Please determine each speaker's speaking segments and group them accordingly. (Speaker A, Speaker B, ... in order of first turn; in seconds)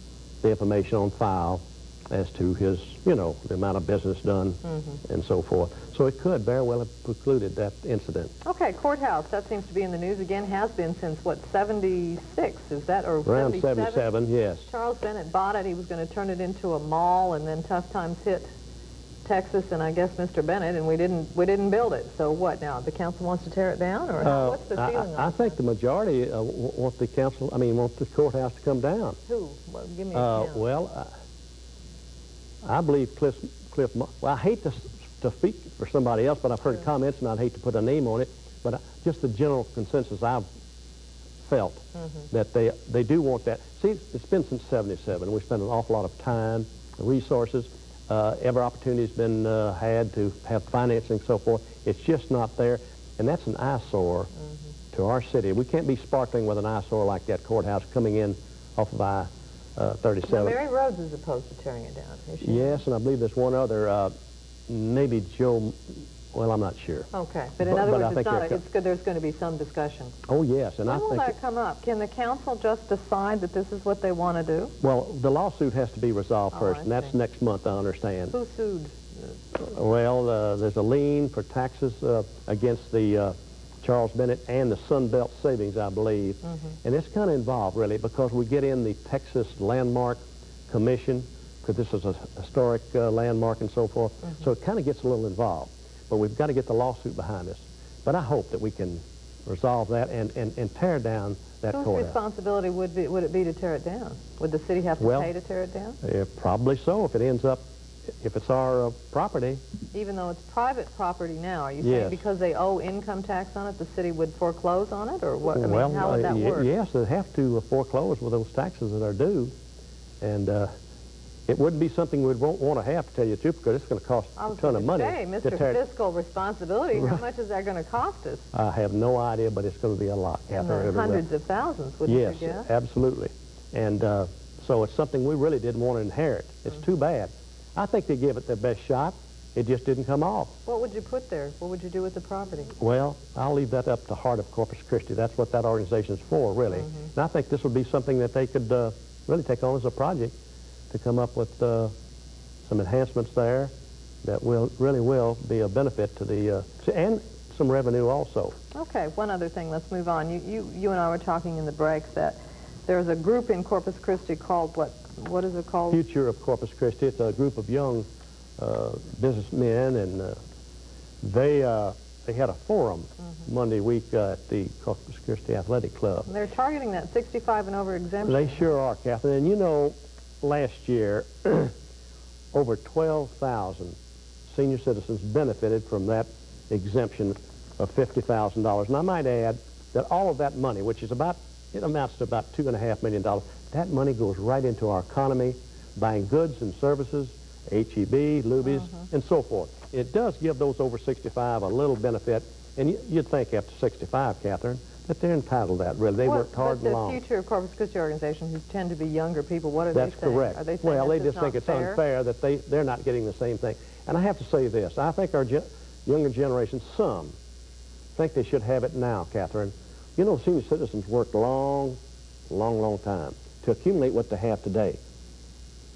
Speaker A: 0.4-8.3, 13.2-14.6, 24.2-29.2, 30.1-31.1, 32.6-40.5, 41.4-54.3, 54.9-60.6, 62.4-64.1, 64.7-67.1, 67.6-68.6, 70.3-71.3, 74.8-78.3, 79.5-102.2, 105.0-105.3, 106.0-107.7, 108.2-109.6, 111.8-112.2, 115.5-119.5, 120.2-120.7, 121.5-125.8, 126.9-127.2, 128.5-131.2, 132.1-140.5, 142.8-150.3, 150.9-151.9, 152.6-158.5, 165.9-170.4, 171.2-176.3, 178.2-181.7, 182.5-184.0, 184.5-207.2, 209.9-217.3, 218.1-225.0
Speaker B: 8.4-18.5, 19.2-25.6, 29.3-30.6, 60.2-62.8, 67.1-70.1, 70.9-74.7, 76.5-77.1, 78.3-79.0, 101.7-106.0, 109.9-116.7, 124.4-128.4, 130.5-132.7, 140.7-142.7, 158.7-166.0, 176.3-178.6, 198.6-199.0, 206.2-212.0